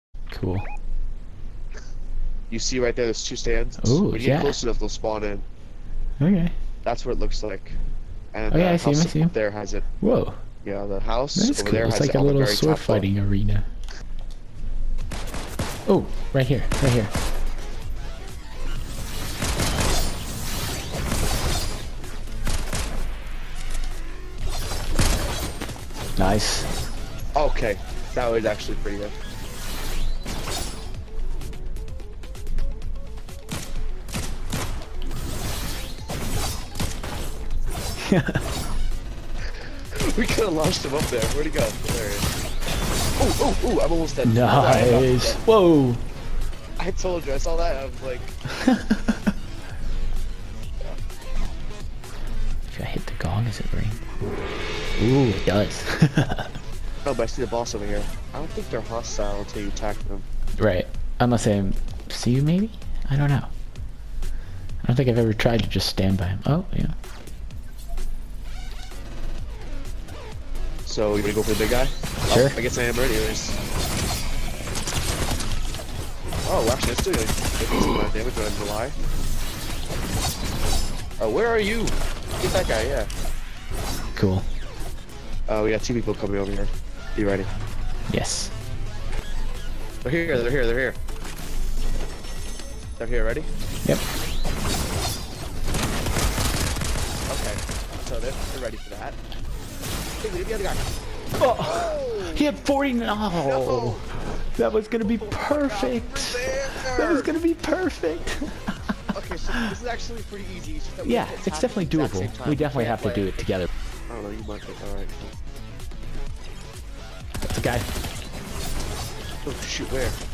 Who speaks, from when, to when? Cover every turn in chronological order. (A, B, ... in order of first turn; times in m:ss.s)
0:00.3-0:00.7 A
0:02.5-0:05.4 B
0:03.8-0:04.6 A
0:06.2-0:06.5 A
0:06.8-0:07.8 B
0:08.3-0:09.8 B
0:08.5-0:09.3 A
0:10.0-0:10.4 A
0:10.6-0:13.1 B
0:11.4-0:13.7 A
0:15.9-0:17.1 A
0:26.2-0:26.7 A
0:27.4-0:29.2 B
0:38.0-0:38.4 A
0:39.9-0:42.4 B
0:43.2-0:45.4 B
0:44.2-0:46.0 A
0:46.8-0:48.4 B
0:48.6-0:49.2 A
0:52.7-0:54.0 A
0:55.0-0:56.5 A
0:57.0-1:00.3 B
1:00.6-1:03.5 A
1:04.8-1:07.0 A
1:10.8-1:13.6 B
1:12.3-1:12.6 A
1:16.4-1:19.0 B
1:21.2-1:23.1 B
1:24.2-1:24.5 A
1:25.5-1:27.5 B
1:28.1-1:28.5 A
1:30.0-1:31.0 B
1:33.0-1:33.5 B
1:37.3-1:39.2 B
1:40.2-1:40.8 B
1:41.4-1:48.8 A
1:41.4-1:42.6 B
1:43.3-1:44.1 B
1:45.0-1:47.3 B
1:49.1-1:53.5 B
1:51.0-1:53.7 A
1:54.1-1:55.4 B
1:57.4-1:57.9 A
1:59.4-2:00.2 B